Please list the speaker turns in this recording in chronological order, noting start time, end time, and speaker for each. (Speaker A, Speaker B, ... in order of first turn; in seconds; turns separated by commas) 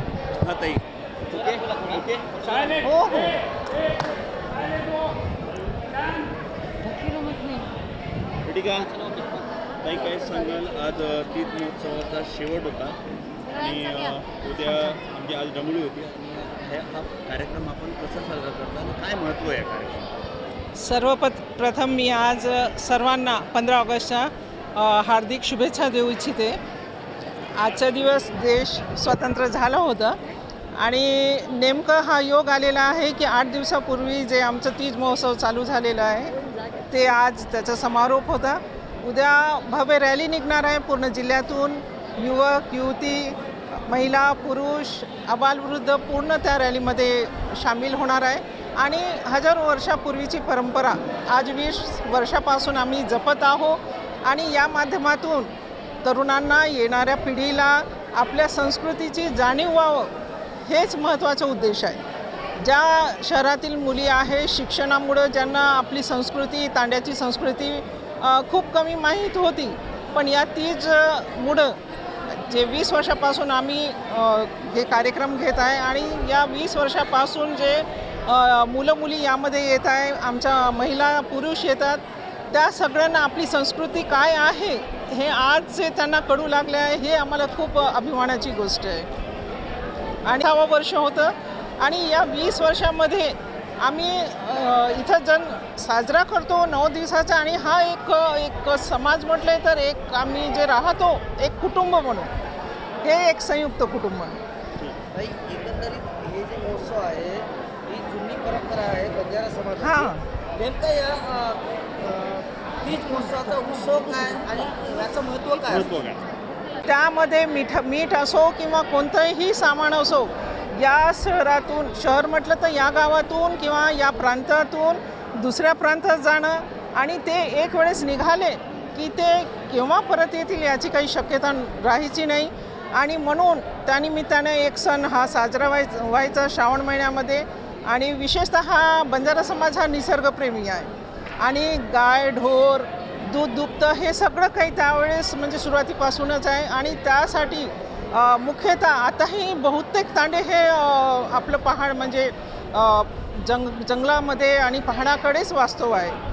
Speaker A: 0.4-2.8, Speaker B: 2.8-3.4, Speaker A: 8.4-9.2, Speaker A: 9.8-13.0, Speaker A: 13.5-20.1, Speaker B: 20.8-26.6, Speaker B: 27.5-30.2, Speaker B: 30.8-55.5, Speaker B: 56.0-60.1, Speaker B: 60.6-62.0, Speaker B: 62.6-89.1, Speaker B: 90.2-102.3, Speaker B: 103.0-104.4, Speaker C: 105.1-115.9, Speaker B: 109.8-110.2, Speaker A: 115.7-116.2, Speaker B: 116.8-156.2